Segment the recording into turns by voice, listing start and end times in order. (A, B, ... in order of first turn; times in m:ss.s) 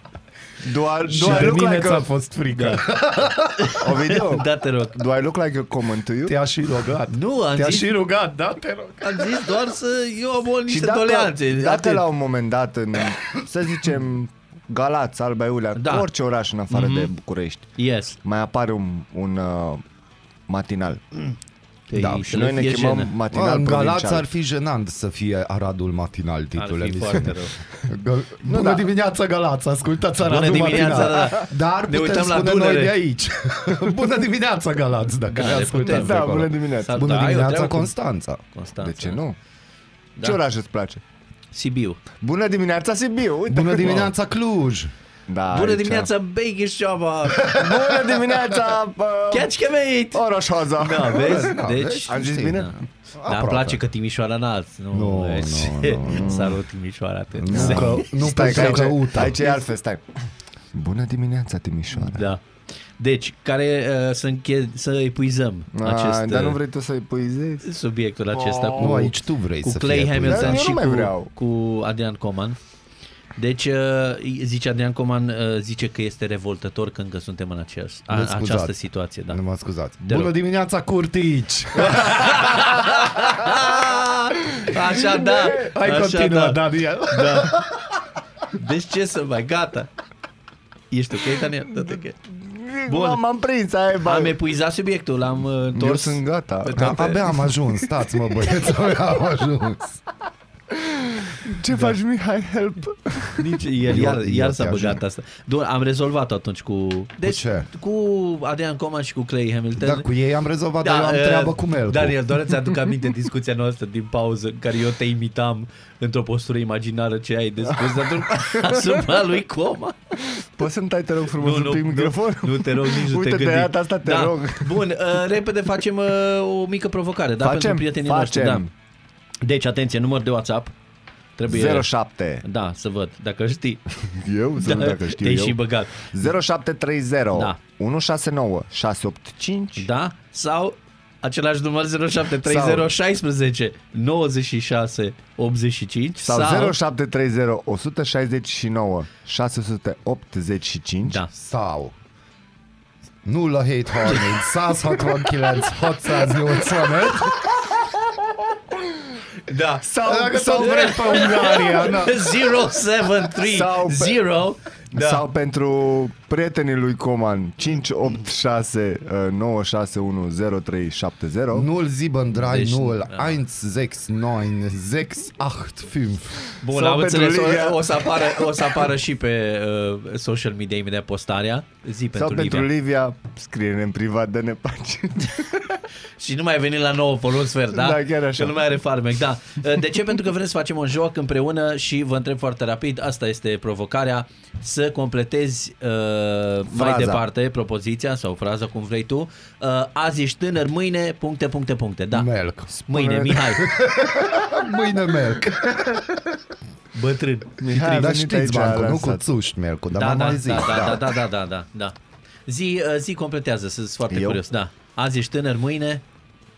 0:00.6-0:02.1 A
0:01.0-0:03.8 B
0:02.5-0:02.9 C
0:03.6-0:05.0 C
0:03.8-0:06.4 A
0:06.3-0:09.6 B
0:07.1-0:08.0 C
0:09.0-0:12.1 C
0:10.7-0:19.8 A
0:15.8-0:16.1 C
0:16.7-0:17.1 C
0:17.8-0:18.2 C
0:20.5-0:21.0 A
0:21.9-0:23.1 C
0:21.9-0:22.3 B
0:22.3-0:24.3 A
0:23.3-0:38.4 B
0:26.6-0:27.6 C
0:28.4-0:28.9 A
0:30.2-0:33.0 C
0:30.7-0:31.3 A
0:35.3-0:38.0 C
0:35.7-0:37.0 A
0:38.5-0:39.2 C
0:38.8-0:39.4 A
0:40.2-0:41.0 A
0:41.5-0:42.0 C
0:42.2-0:44.1 A
0:43.5-0:44.9 B
0:45.3-0:46.1 A
0:45.5-0:47.7 C
0:47.6-0:49.5 A
0:49.3-0:59.0 C
0:50.1-0:51.5 A
0:51.1-0:53.8 B
0:52.1-0:52.7 A
0:54.9-0:56.4 B
0:56.1-0:56.6 A
0:57.4-0:59.6 B
0:57.5-1:00.0 A
1:00.7-1:02.3 A
1:01.9-1:02.4 C
1:03.0-1:06.6 C
1:05.7-1:07.7 A
1:07.6-1:12.6 C
1:08.3-1:09.1 A
1:08.8-1:10.7 B
1:10.3-1:11.3 A
1:13.4-1:19.4 C
1:18.1-1:18.8 B
1:19.3-1:23.6 B
1:20.0-1:20.3 C
1:21.7-1:27.6 C
1:25.0-1:27.7 B
1:28.5-1:29.9 C
1:30.9-1:32.2 C
1:31.9-1:34.4 A
1:32.9-1:33.2 C
1:34.0-1:37.3 C
1:35.7-1:37.3 A
1:36.8-1:40.0 B
1:40.7-1:43.5 A
1:43.4-1:50.1 C
1:43.8-1:45.0 B
1:47.2-1:47.7 B
1:49.8-1:52.3 B
1:50.8-2:00.0 C
1:57.7-1:59.1 A
2:00.6-2:04.9 A
2:01.4-2:08.6 C
2:07.4-2:08.7 A
2:09.4-2:10.7 C
2:11.4-2:11.9 C
2:11.5-2:12.4 A
2:12.4-2:13.8 C
2:14.1-2:19.9 A
2:14.6-2:16.1 C
2:19.8-2:26.8 C
2:22.4-2:22.9 A
2:26.2-2:31.2 A
2:31.0-2:31.3 C
2:31.3-2:32.0 B
2:33.2-2:37.6 B
2:34.0-2:34.4 C
2:39.4-2:39.9 C
2:39.8-2:41.2 A
2:40.0-2:42.4 B
2:40.4-2:45.3 C
2:43.3-2:44.2 A
2:44.9-2:51.7 A
2:51.5-2:56.5 B
2:52.3-2:53.4 C
2:56.6-3:02.7 C
2:56.7-2:58.8 A
3:02.1-3:05.8 A
3:06.2-3:22.3 C
3:07.7-3:08.6 A
3:16.7-3:17.2 A
3:22.1-3:22.7 B
3:22.7-3:23.6 A
3:22.9-3:23.7 C
3:23.6-3:26.0 B
3:26.9-3:27.6 C
3:27.6-3:29.3 A
3:27.7-3:31.1 B
3:29.9-3:32.0 C
3:32.5-3:36.0 C
3:34.1-3:34.4 A